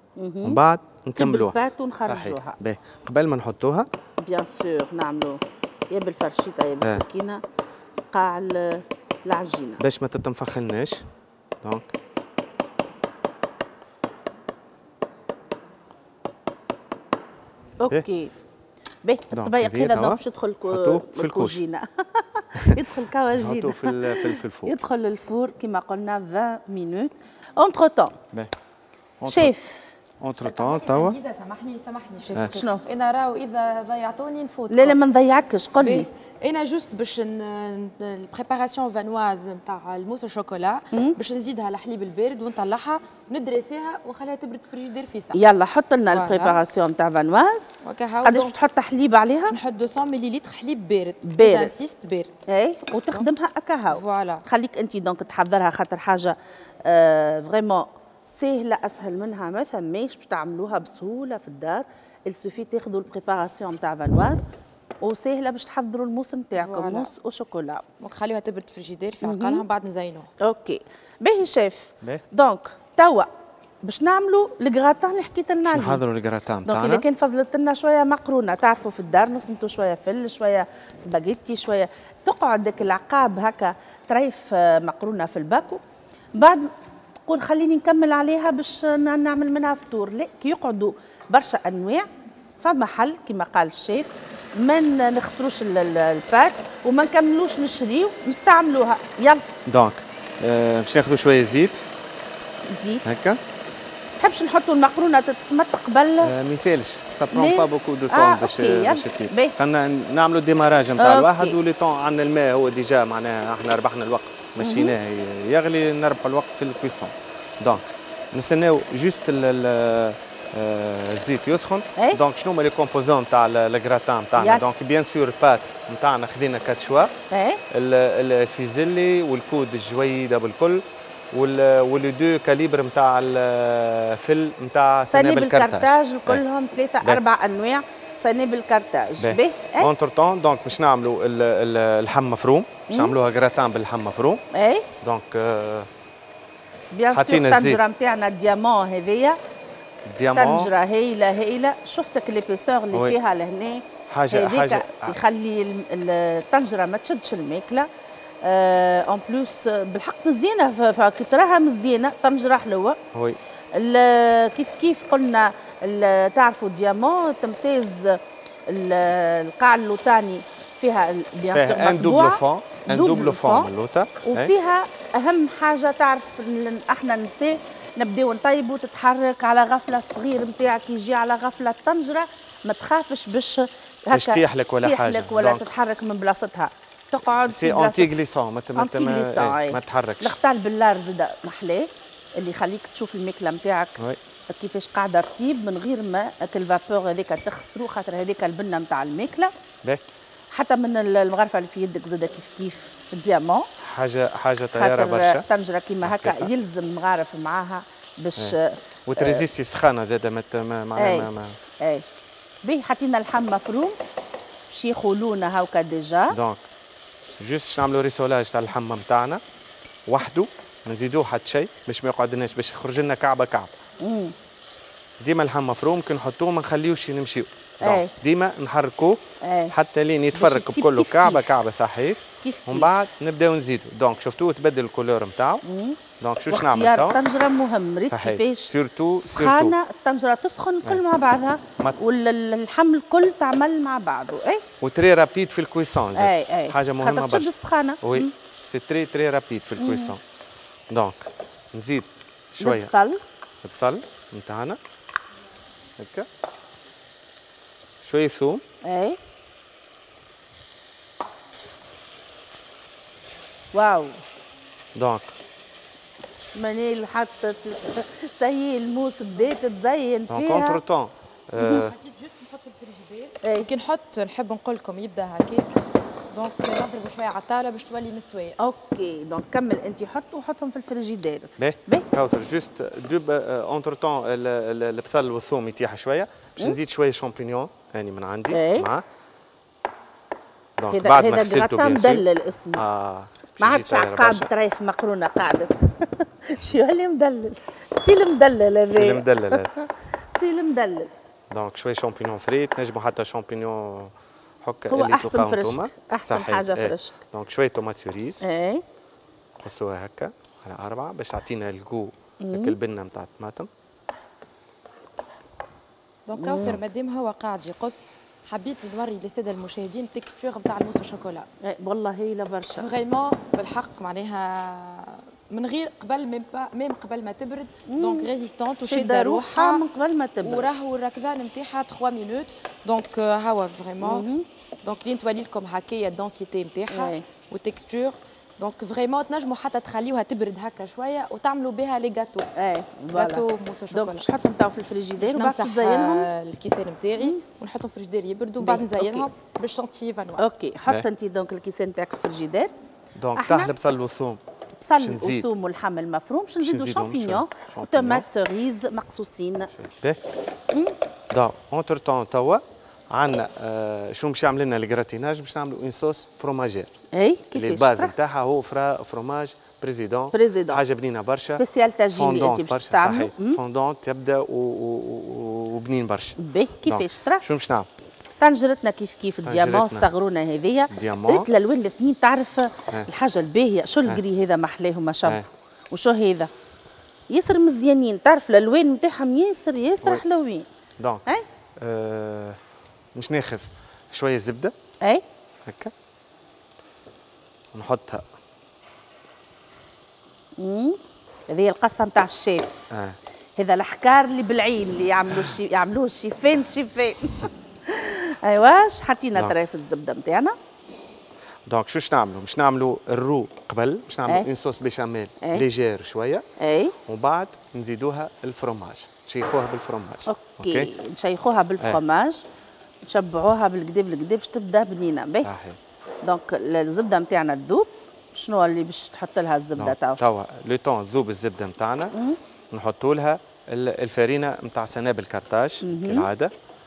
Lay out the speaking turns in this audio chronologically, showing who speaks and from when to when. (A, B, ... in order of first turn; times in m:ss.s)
0:00.2-0:00.6 A
0:00.4-0:03.9 B
0:01.2-0:02.6 A
0:04.2-0:07.4 A
0:06.8-0:07.0 B
0:08.1-0:09.8 A
0:09.8-0:11.1 B
0:11.6-0:11.9 B
0:17.8-0:18.3 A
0:19.0-0:28.2 A
0:19.3-0:21.6 B
0:22.6-0:22.8 B
0:23.3-0:24.7 B
0:29.2-0:29.5 B
0:29.3-0:29.9 A
0:30.2-0:31.2 B
0:30.4-0:35.0 C
0:32.5-0:32.8 A
0:34.7-0:36.1 A
0:35.8-0:45.4 C
0:45.3-0:47.7 A
0:46.1-0:46.6 C
0:47.8-0:48.6 C
0:48.2-0:49.6 A
0:49.5-0:52.5 C
0:51.3-0:51.7 A
0:52.5-1:04.4 A
0:53.9-0:54.5 C
1:05.0-1:07.8 A
1:06.6-1:07.1 C
1:08.0-1:10.3 C
1:09.2-1:09.6 A
1:10.4-1:13.3 A
1:13.8-1:16.0 A
1:15.7-1:17.0 B
1:16.6-1:25.8 A
1:26.4-1:26.7 A
1:27.3-1:32.1 A
1:32.6-1:39.4 A
1:39.7-1:41.9 B
1:42.7-1:43.0 A
1:43.0-1:43.4 B
1:44.2-1:46.3 A
1:46.2-2:07.2 B
1:47.3-1:49.6 A
1:51.0-1:51.6 A
1:54.6-1:55.0 A
2:04.4-2:04.6 A
2:07.3-2:07.6 A
2:07.7-2:16.4 B
2:15.1-2:19.9 A
2:19.2-2:24.4 B
2:22.9-2:23.2 A
2:24.5-2:24.9 A
2:25.0-2:25.9 B
2:26.9-2:29.4 A
2:27.1-2:27.9 B
2:30.0-2:30.7 B
2:30.3-2:37.9 A
2:32.9-2:33.2 B
2:34.1-2:35.2 B
2:38.4-2:43.0 A
2:43.1-2:43.4 B
2:43.7-2:53.7 A
2:51.5-2:54.5 B
2:54.2-3:08.1 A
3:04.1-3:05.7 B
3:07.5-3:10.4 B
3:08.8-3:14.0 A
3:14.5-3:19.5 A
3:20.5-3:23.7 A
3:23.8-3:25.4 B
3:24.8-3:29.4 A
3:26.0-3:26.5 B
3:28.4-3:31.6 B
3:31.0-3:32.0 A
3:32.6-3:34.0 A
3:34.7-3:36.4 A
3:36.3-3:36.6 B
3:37.4-3:39.4 B
3:40.1-3:43.7 B
3:44.0-3:44.4 A
3:45.2-3:55.6 B
3:47.8-3:48.1 A
3:49.4-3:49.7 A
3:50.3-3:51.4 A
3:52.4-3:52.9 A
3:55.6-3:56.0 A
3:56.2-3:57.2 B
3:56.5-4:04.6 A
3:58.1-3:59.8 B
4:04.8-4:10.2 B
4:06.2-4:08.3 A
4:09.8-4:10.2 A
4:10.9-4:12.9 B
4:12.6-4:13.2 A
4:13.6-4:14.8 B
4:16.0-4:16.3 B
4:18.0-4:18.6 B
4:18.8-4:19.2 A
4:23.7-4:24.2 A
4:25.0-4:25.3 B
4:26.6-4:30.8 A
4:30.3-4:31.9 B
4:31.6-4:31.9 A
4:31.7-4:35.7 C
4:33.4-4:33.7 A
4:36.3-4:38.6 C
4:38.6-4:42.1 A
4:41.6-4:49.0 B
4:48.5-4:48.9 A
4:50.8-4:54.5 B
4:50.9-4:52.8 A
4:53.6-5:01.1 A
4:58.9-4:59.7 B
5:01.5-5:08.5 B
5:04.9-5:07.2 A
5:08.4-5:08.8 A
5:09.6-5:13.7 B
5:12.4-5:12.8 A
5:16.3-5:21.5 C
5:16.4-5:16.8 A
5:21.6-5:22.9 A
5:22.8-5:29.8 C
5:27.9-5:28.3 A
5:28.8-5:30.7 A
5:30.4-5:34.3 C
5:34.0-5:34.5 A
5:34.8-5:42.5 C
5:36.9-5:37.2 A
5:42.6-5:46.3 A
5:43.1-5:44.4 C
5:45.2-5:50.5 C
5:48.6-5:49.3 A
5:50.4-5:52.7 A
5:53.2-5:54.4 B
5:53.4-5:53.7 A
5:54.8-5:59.7 A
5:55.0-5:55.5 B
5:56.6-5:58.3 B
5:59.7-6:00.2 B
6:01.3-6:06.9 B
6:07.1-6:08.1 A
6:07.5-6:17.9 B
6:10.3-6:10.8 A
6:11.5-6:13.6 A
6:16.4-6:17.5 A
6:18.4-6:26.5 A
6:19.4-6:20.1 B
6:20.9-6:21.5 B
6:27.3-6:30.7 A
6:31.0-6:31.2 B
6:31.8-6:32.6 B
6:33.2-6:34.7 B
6:35.6-6:35.9 B
6:37.7-6:38.3 B
6:40.6-6:42.8 A
6:42.9-6:43.2 B
6:43.6-6:50.6 A
6:51.7-6:56.5 B
6:56.6-6:57.0 A
6:57.1-7:00.9 B
7:00.3-7:02.4 A
7:03.0-7:05.5 A
7:05.4-7:05.8 B
7:06.2-7:10.2 A
7:09.8-7:12.2 B
7:12.1-7:12.4 A
7:12.7-7:16.5 B
7:15.8-7:16.3 A